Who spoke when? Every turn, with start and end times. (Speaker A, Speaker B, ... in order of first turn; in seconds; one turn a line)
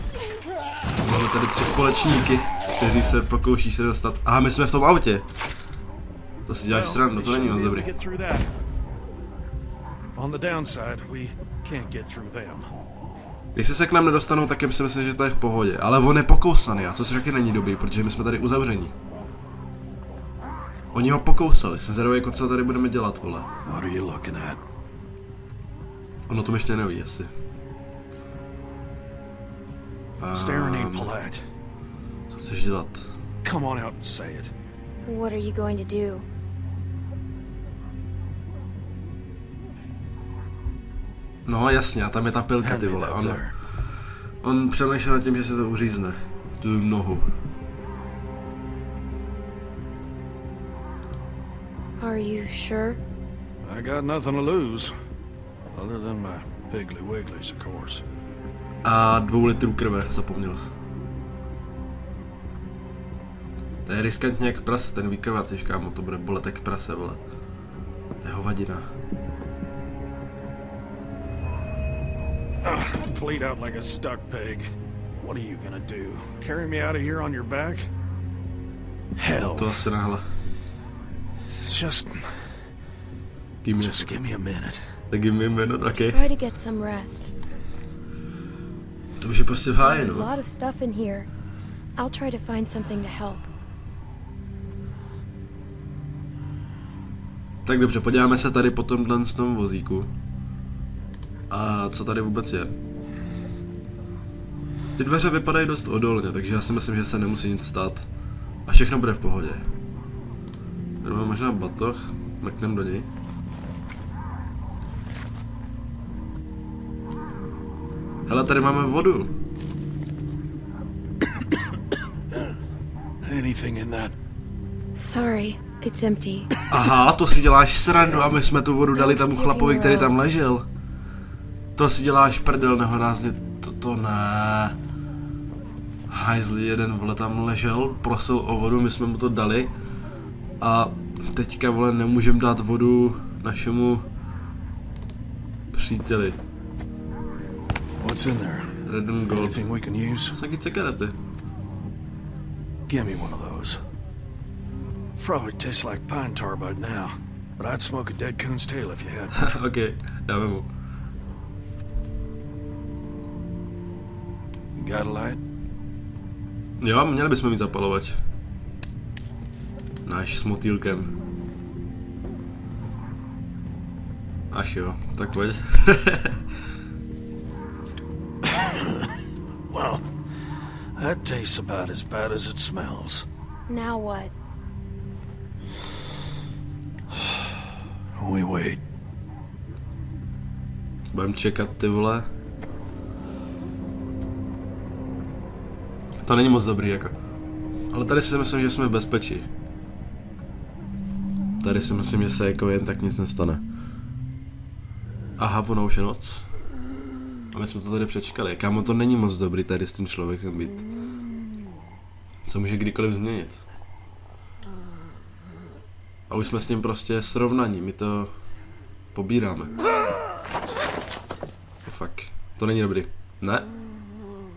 Speaker A: 1.0-5.2
Speaker A: 6.5-7.9
Speaker B: 6.7-8.5
Speaker B: 10.2-12.7
Speaker A: 13.5-18.9
Speaker A: 20.9-23.5
Speaker B: 23.6-24.6
Speaker A: 26.3-27.3
Speaker A: 30.2-31.1
Speaker B: 30.3-31.4
Speaker A: 32.3-33.0
Speaker B: 33.4-34.5
Speaker C: 35.0-36.2
Speaker A: 41.5-43.4
Speaker B: 42.6-43.5
Speaker A: 44.4-47.3
Speaker C: 52.0-53.0
Speaker B: 53.6-54.9
Speaker B: 55.7-58.0
Speaker A: 58.8-60.7
Speaker A: 63.9-67.2
Speaker A: 68.2-68.9
Speaker B: 72.6-77.9
Speaker B: 79.2-79.9
Speaker A: 79.4-80.3
Speaker B: 81.6-82.6
Speaker A: 83.6-84.2
Speaker B: 83.8-84.9
Speaker A: 85.1-86.3
Speaker C: 86.1-87.3
Speaker A: 89.2-90.3
Speaker C: 89.8-91.3
Speaker C: 92.0-93.4
Speaker A: 97.7-100.1
Speaker A: 101.5-102.7
Speaker A: 105.0-108.0
Speaker A: 108.7-109.6
Speaker A: 111.0-113.1
Speaker A: 118.3-119.3
Speaker B: 123.2-124.1
Speaker C: 125.0-126.5
Speaker A: 126.7-130.6
Speaker C: 128.9-130.1
Speaker A: 131.8-134.7
Speaker A: 136.1-139.7
Speaker A: 140.6-144.0
Speaker A: 145.7-146.4
Speaker B: 148.0-150.4
Speaker A: 148.8-149.6
Speaker A: 150.3-151.1
Speaker B: 152.9-153.8
Speaker B: 155.2-159.5
Speaker A: 159.3-160.7
Speaker B: 164.8-165.4
Speaker A: 166.8-168.2
Speaker A: 170.0-171.1
Speaker A: 174.5-176.4
Speaker B: 179.7-180.1
Speaker B: 180.9-183.2
Speaker C: 183.7-184.3
Speaker B: 188.2-188.8
Speaker A: 191.1-192.3
Speaker A: 196.2-197.1
Speaker A: 197.9-199.5
Speaker A: 201.6-203.6
Speaker A: 205.4-206.5
Speaker A: 207.5-210.8
Speaker A: 212.5-213.6
Speaker A: 216.3-218.3
Speaker A: 219.1-219.8
Speaker A: 221.8-223.7